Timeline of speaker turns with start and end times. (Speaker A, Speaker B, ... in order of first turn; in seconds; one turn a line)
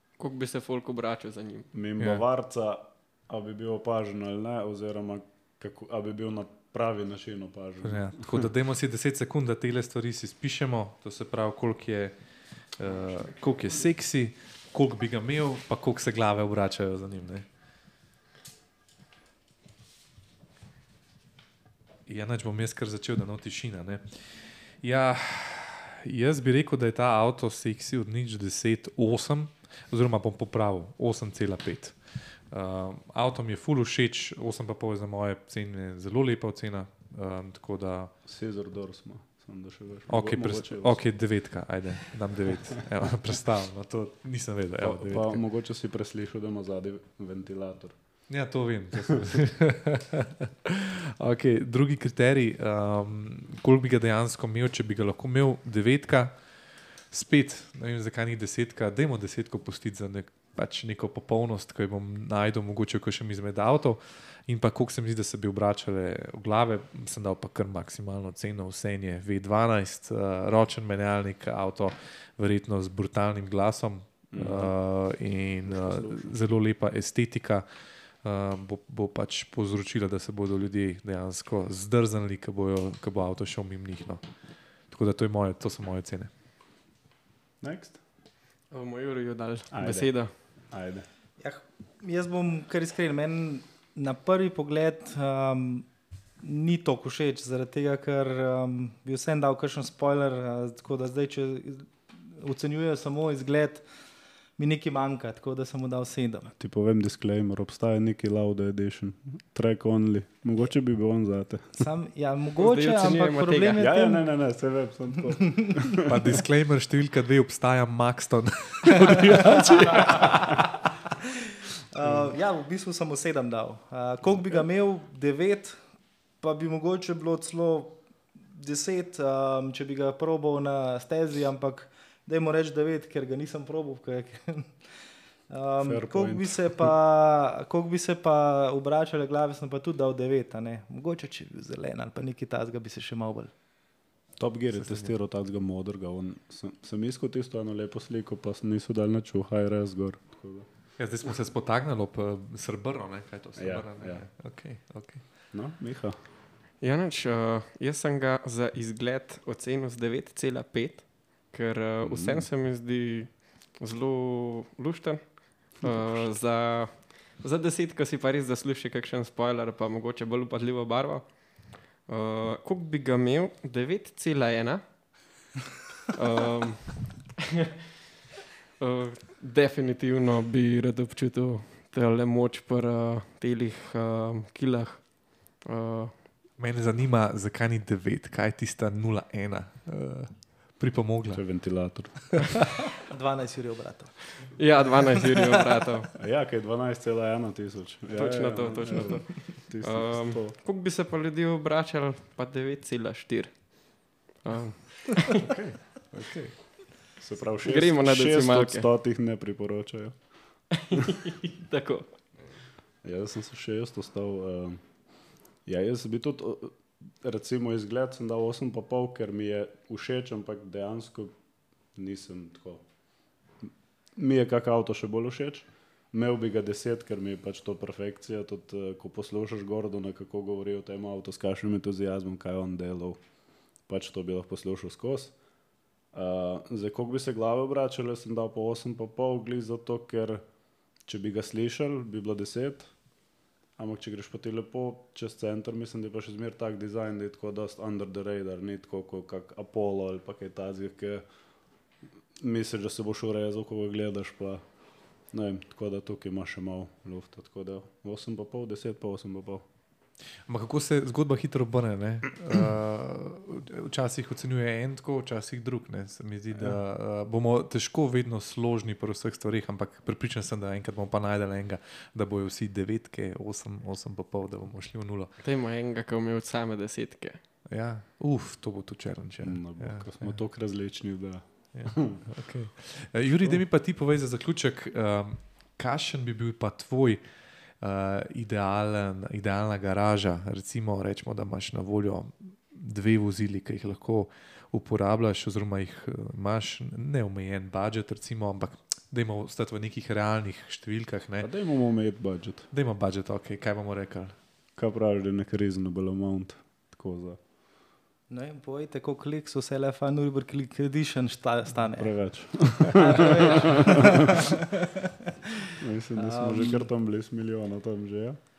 Speaker A: 0.2-1.7
Speaker B: 1.7-8.4
Speaker C: 7.8-17.5
Speaker C: 22.1-38.1
Speaker B: 38.2-41.2
Speaker C: 40.1-45.4
Speaker B: 44.8-48.4
Speaker C: 48.3-50.3
Speaker C: 51.2-86.3
Speaker B: 74.3-74.8
Speaker B: 75.7-76.3
Speaker B: 87.6-88.0
Speaker A: 88.7-90.3
Speaker B: 89.7-91.1
Speaker D: 91.4-103.9
Speaker D: 104.6-106.5
Speaker B: 106.6-111.9
Speaker D: 111.8-114.4
Speaker A: 112.6-113.9
Speaker B: 113.8-116.1
Speaker D: 115.5-115.8
Speaker C: 116.0-120.7
Speaker D: 119.8-120.4
Speaker D: 121.9-143.5
Speaker B: 122.0-122.3
Speaker B: 135.8-136.9
Speaker B: 144.4-150.7
Speaker C: 144.7-145.1
Speaker C: 151.0-155.3
Speaker B: 153.6-154.3
Speaker B: 155.5-156.2
Speaker A: 156.8-175.3
Speaker B: 162.0-162.4
Speaker B: 165.8-166.3
Speaker A: 176.1-177.3
Speaker A: 178.8-186.2
Speaker C: 186.6-192.0
Speaker B: 191.3-192.6
Speaker D: 193.1-194.5
Speaker A: 194.5-196.1
Speaker B: 196.2-200.6
Speaker A: 198.2-205.2
Speaker C: 205.4-206.6
Speaker B: 207.2-210.8
Speaker A: 207.6-208.9
Speaker A: 210.8-212.2
Speaker B: 213.0-221.4
Speaker B: 221.9-222.9
Speaker B: 223.6-233.2
Speaker B: 233.8-235.4
Speaker B: 236.1-240.4
Speaker B: 241.0-243.2
Speaker B: 243.8-251.2
Speaker B: 252.4-259.6
Speaker C: 260.5-275.4
Speaker B: 266.6-266.8
Speaker A: 275.4-277.4
Speaker C: 277.7-280.4
Speaker B: 279.4-282.2
Speaker C: 281.7-301.5
Speaker B: 301.4-302.7
Speaker C: 302.7-304.4
Speaker B: 304.8-307.4
Speaker D: 308.3-314.5
Speaker B: 311.9-313.9
Speaker B: 315.8-318.4
Speaker D: 316.2-316.9